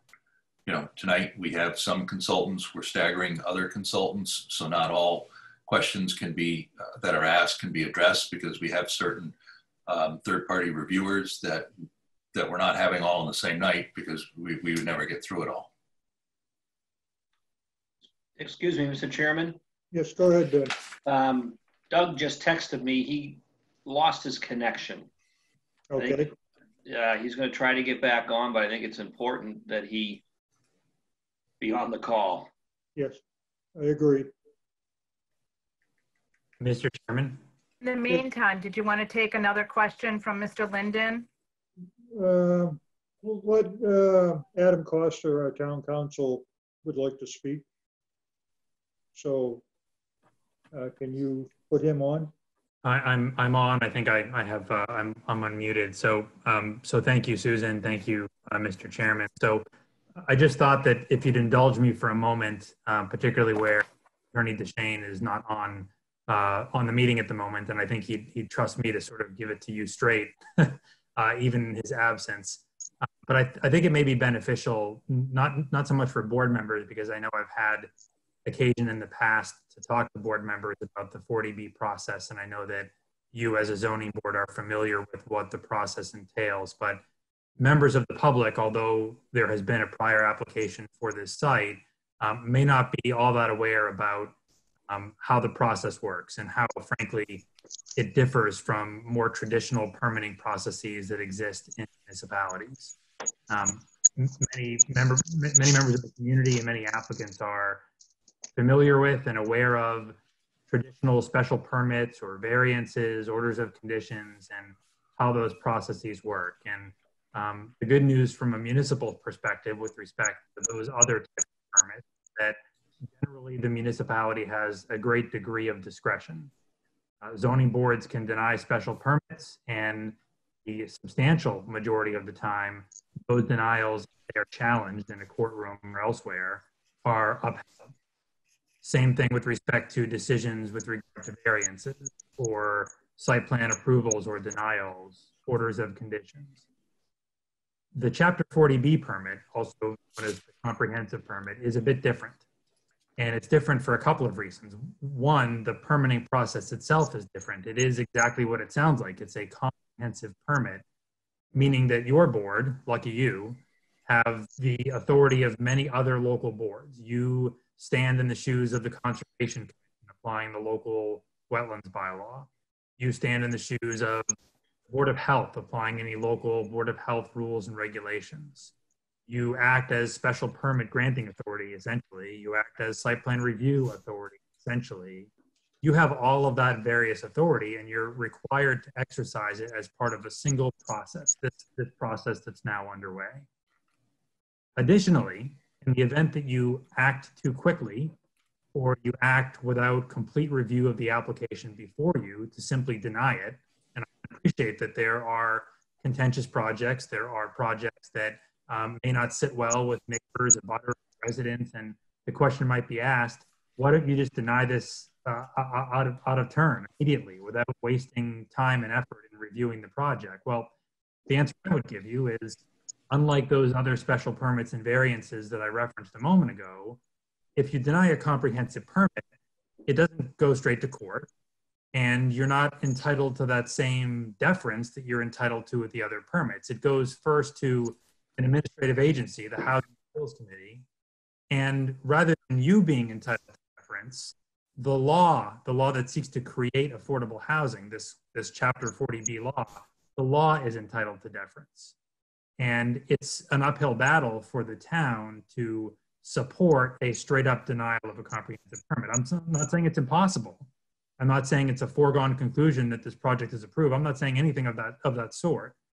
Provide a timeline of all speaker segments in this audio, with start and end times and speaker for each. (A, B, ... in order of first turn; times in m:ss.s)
0:00.7-0:09.3 A
0:09.9-0:11.7 A
0:12.3-0:15.7 A
0:18.4-0:19.6 B
0:19.9-0:20.7 C
0:21.1-0:25.1 B
0:25.9-0:26.3 C
0:26.0-0:26.3 B
0:26.9-0:30.2 B
0:31.6-0:32.5 B
0:33.0-0:33.2 C
0:33.8-0:34.3 C
0:36.6-0:37.4 D
0:37.8-0:41.3 E
0:42.1-0:47.6 C
0:49.1-0:49.6 C
0:50.7-0:52.3 C
0:52.8-0:59.7 D
1:00.2-1:12.6 D
1:13.2-1:17.9 D
1:18.4-1:27.0 D
1:27.6-1:34.4 D
1:34.9-1:43.0 D
1:43.5-1:47.9 D
1:48.6-1:50.2 D
1:50.7-2:02.6 D
2:03.1-2:06.5 D
2:07.2-2:17.9 D
2:18.8-2:26.6 D
2:27.9-2:32.4 D
2:33.2-2:40.8 D
2:41.5-2:54.4 D
2:54.9-2:58.7 D
2:59.3-3:05.3 D
3:05.8-3:13.5 D
3:14.8-3:18.2 D
3:18.8-3:40.7 D
3:41.3-3:47.0 D
3:47.6-3:49.2 D
3:49.9-3:51.3 D
3:51.9-4:00.8 D
4:01.5-4:11.9 D
4:12.6-4:20.7 D
4:21.2-4:25.8 D